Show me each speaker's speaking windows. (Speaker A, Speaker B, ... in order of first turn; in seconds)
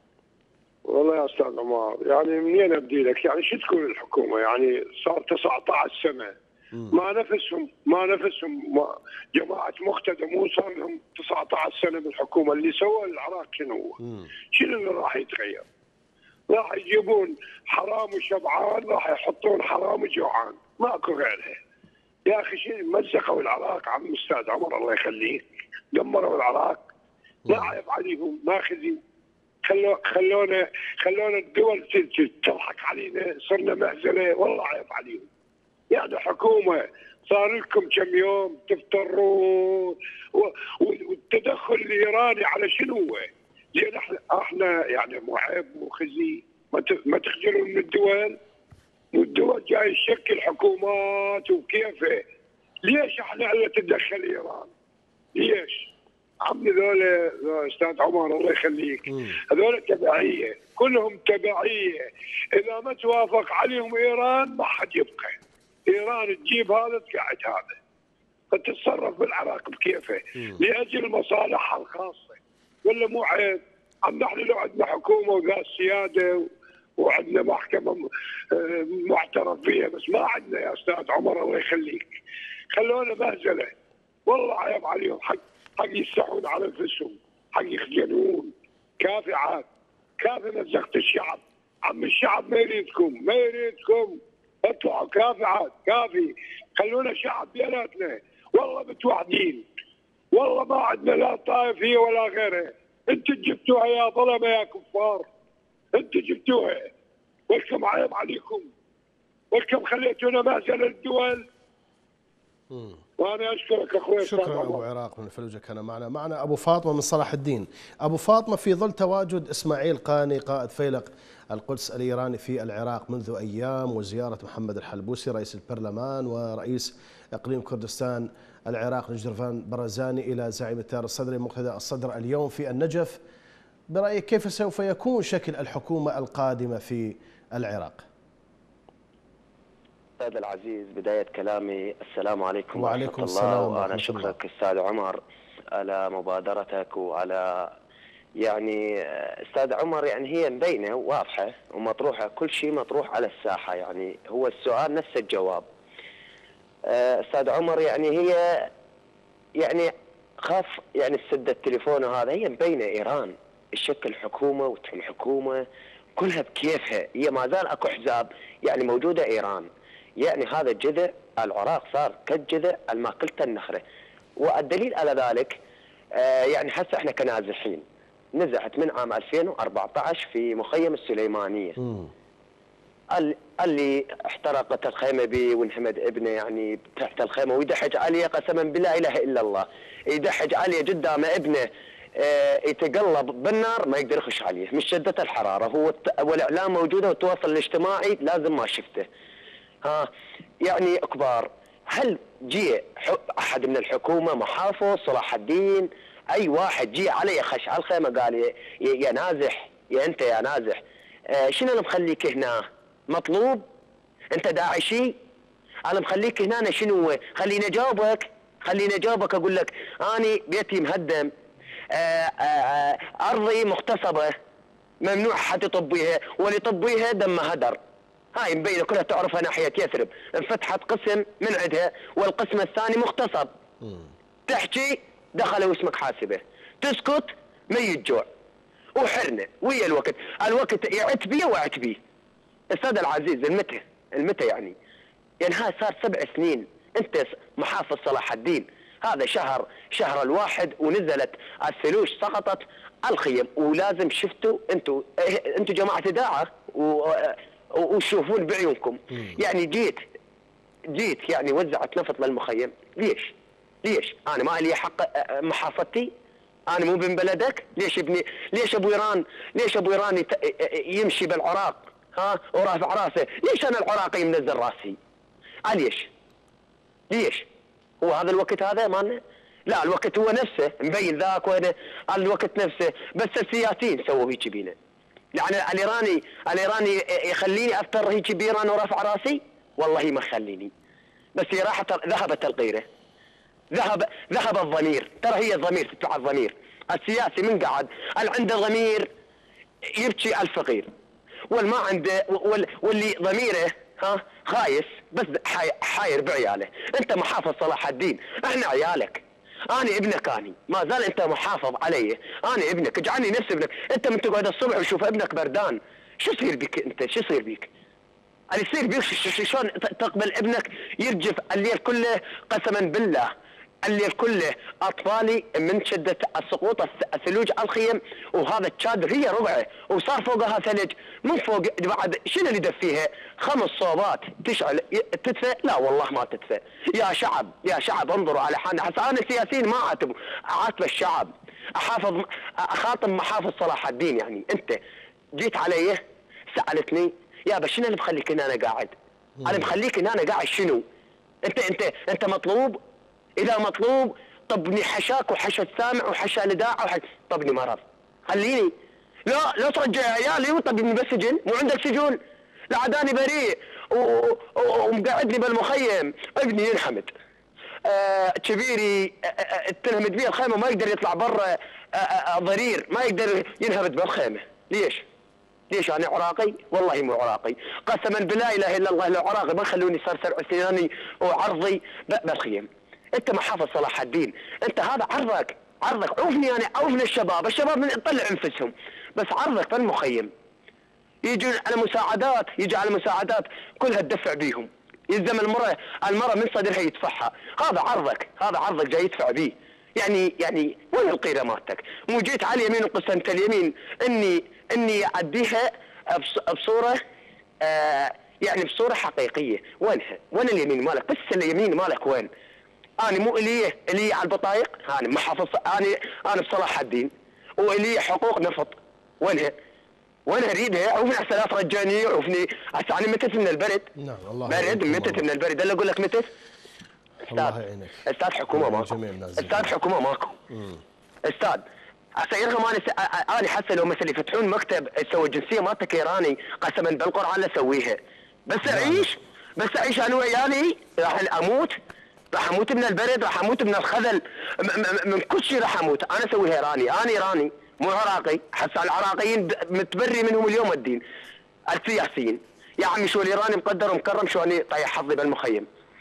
Speaker A: 0.9-6.3, 6.9-14.0, 14.5-15.6, 16.5-21.6, 22.2-26.8, 27.5-29.0, 29.6-35.2, 35.9-48.4, 49.1-52.2, 52.9-54.7, 55.4-55.9, 56.4-62.0, 62.5-65.3, 65.9-67.7, 68.5-76.5, 77.0-82.1, 82.7-83.7, 84.3-89.6, 90.2-99.6, 100.3-105.2, 105.9-106.9, 107.5-108.7, 109.5-111.4, 113.2-114.8
Speaker B: 14.0-14.3, 27.4-27.7, 112.7-113.0, 114.2-133.2, 133.9-138.0, 142.7-144.3, 181.8-182.1, 233.8-234.1, 349.4-349.7, 424.0-425.2, 427.2-429.7, 430.5-430.8, 438.6-439.1
Speaker C: 140.2-145.2, 145.7-147.7, 148.4-155.7, 156.8-158.7, 159.6-165.6, 166.2-173.8, 174.4-175.6, 176.1-177.8, 178.3-181.8, 183.1-191.7, 192.2-199.1, 200.6-213.6, 214.3-215.1, 215.9-221.3, 221.9-224.3, 225.0-227.8, 228.3-233.5, 234.5-238.3, 238.9-242.0, 242.7-244.7, 245.4-260.0, 260.9-263.3, 263.8-266.1, 266.7-275.0, 275.7-276.1, 277.1-277.4, 278.0-284.7, 285.3-290.7, 291.3-292.8, 293.7-299.1, 300.0-300.9, 301.5-317.7, 318.5-323.3, 323.8-344.8, 345.4-346.0, 346.5-348.9, 349.4-350.8, 351.4-352.8, 353.4-358.7, 359.2-362.2, 362.7-367.1, 367.8-375.0, 375.7-390.3, 391.2-407.0, 407.6-412.3, 413.0-419.5, 420.3-423.9, 424.5-426.3, 427.3-430.4, 431.2-431.6, 432.2-441.8, 442.3-451.0, 451.7-455.6